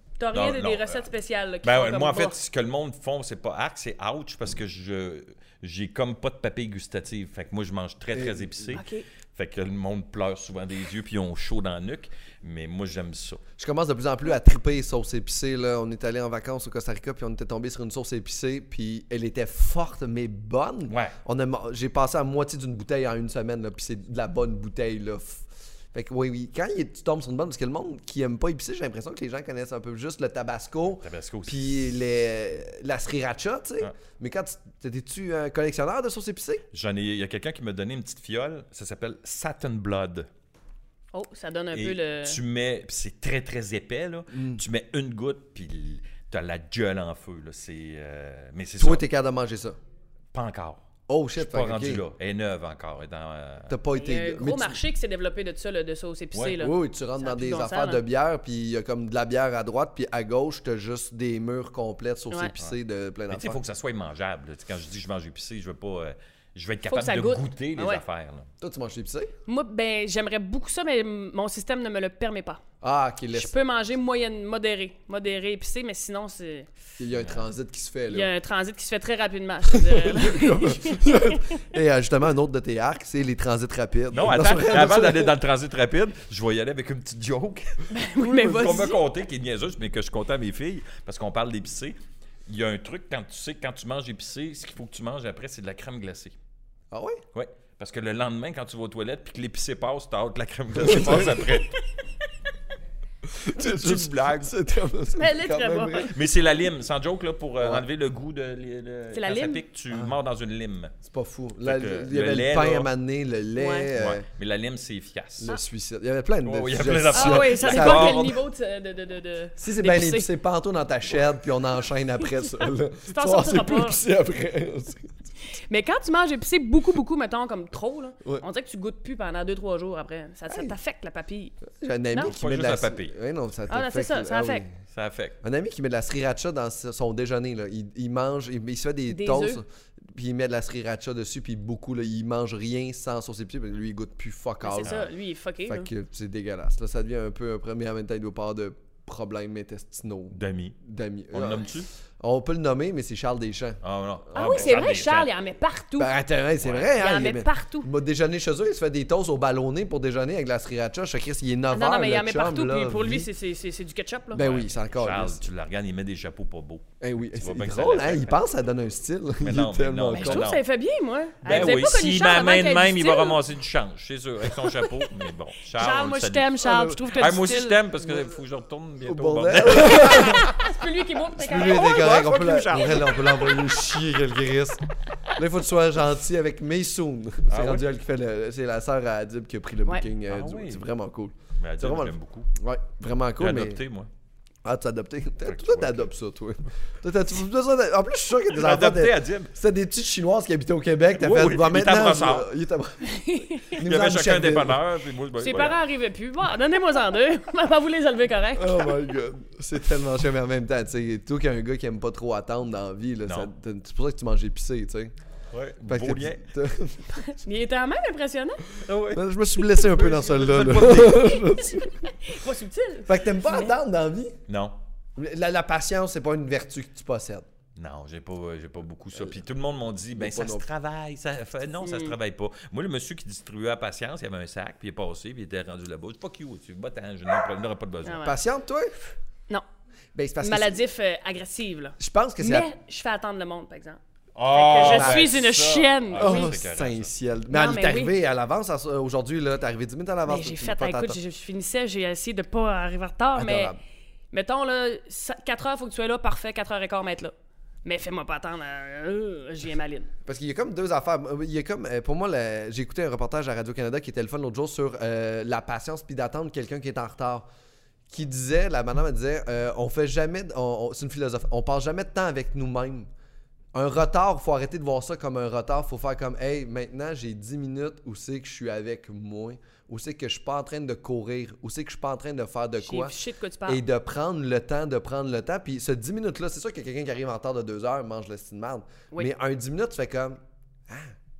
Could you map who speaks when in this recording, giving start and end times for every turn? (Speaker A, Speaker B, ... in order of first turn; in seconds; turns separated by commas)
Speaker A: 0.2-2.4, Speaker B: 0.3-1.0, Speaker B: 1.6-13.4, Speaker C: 8.1-8.8, Speaker A: 8.7-9.1, Speaker C: 13.6-36.6, Speaker B: 20.9-21.1, Speaker B: 31.0-31.8, Speaker B: 36.7-40.3, Speaker A: 41.1-42.4, Speaker B: 41.7-49.0, Speaker C: 44.3-44.6, Speaker C: 48.8-49.8, Speaker B: 50.3-50.8, Speaker C: 51.1-52.0, Speaker B: 51.4-53.8, Speaker C: 53.7-54.8, Speaker A: 53.9-58.0, Speaker B: 56.3-56.6, Speaker C: 56.6-63.6, Speaker B: 63.3-68.5, Speaker A: 66.9-68.0, Speaker C: 68.6-69.3, Speaker A: 69.5-72.6, Speaker C: 72.8-73.5, Speaker A: 73.3-76.7, Speaker C: 77.0-78.3, Speaker B: 77.2-77.4, Speaker A: 78.1-81.6, Speaker C: 79.7-85.3, Speaker B: 84.1-96.3, Speaker A: 87.9-89.0, Speaker C: 88.4-88.8, Speaker C: 96.9-97.2, Speaker B: 97.3-101.8, Speaker C: 100.8-101.6, Speaker C: 103.3-106.2, Speaker B: 103.5-104.5, Speaker A: 105.2-106.1, Speaker B: 106.1-111.0, Speaker A: 109.1-109.6, Speaker C: 111.0-114.2, Speaker B: 111.6-112.9, Speaker A: 113.6-113.9, Speaker B: 114.0-115.6, Speaker C: 115.4-118.4, Speaker B: 116.5-118.3, Speaker A: 117.1-120.3, Speaker C: 119.6-125.1, Speaker A: 122.4-124.0, Speaker A: 125.5-131.6, Speaker C: 130.5-130.7, Speaker C: 131.7-134.7, Speaker B: 132.2-133.1, Speaker A: 133.7-134.7, Speaker B: 134.9-135.4, Speaker C: 135.4-145.0, Speaker A: 139.1-139.6, Speaker A: 144.6-145.9, Speaker B: 144.8-145.1, Speaker C: 145.7-154.9, Speaker B: 150.3-150.8, Speaker B: 151.3-151.9, Speaker B: 153.8-155.3, Speaker A: 154.3-156.1, Speaker C: 156.0-163.3, Speaker B: 156.6-157.0, Speaker A: 156.9-157.9, Speaker A: 161.7-164.5, Speaker C: 164.3-165.5, Speaker B: 164.4-168.4, Speaker C: 167.0-170.5, Speaker B: 169.4-170.6, Speaker A: 170.1-173.4, Speaker B: 171.4-180.5, Speaker C: 171.5-171.7, Speaker A: 175.8-177.8, Speaker C: 176.7-177.0, Speaker C: 178.0-178.4, Speaker C: 179.0-180.6, Speaker A: 179.8-182.2, Speaker C: 181.3-193.8, Speaker B: 181.5-183.6, Speaker A: 183.1-183.6, Speaker B: 187.5-187.9, Speaker B: 190.3-190.9, Speaker B: 191.6-192.5, Speaker B: 193.4-194.1, Speaker C: 194.7-204.8, Speaker B: 195.4-196.1, Speaker B: 198.5-199.5, Speaker B: 201.2-202.5, Speaker A: 203.0-203.8, Speaker B: 203.8-205.8, Speaker A: 205.4-209.0, Speaker C: 208.6-215.1, Speaker B: 215.5-216.4, Speaker C: 215.8-217.1, Speaker A: 217.1-218.7, Speaker B: 218.8-221.4, Speaker C: 219.1-222.1, Speaker A: 220.8-223.7, Speaker C: 223.1-224.4, Speaker B: 224.5-224.8, Speaker C: 225.2-227.5, Speaker B: 227.8-238.3, Speaker C: 229.1-229.4, Speaker C: 230.2-230.7, Speaker A: 231.8-232.2, Speaker A: 238.1-238.4, Speaker C: 238.2-239.2, Speaker C: 240.1-240.8, Speaker A: 240.4-244.0, Speaker C: 242.0-242.7, Speaker B: 244.3-247.1, Speaker A: 244.5-246.5, Speaker C: 244.8-245.4, Speaker C: 246.1-251.2, Speaker A: 247.5-248.2, Speaker A: 250.3-253.7, Speaker C: 253.3-253.8, Speaker A: 254.3-257.3, Speaker A: 257.9-260.1, Speaker C: 260.2-267.5, Speaker C: 268.1-273.1, Speaker C: 273.7-283.1, Speaker A: 282.8-283.8, Speaker C: 283.7-291.1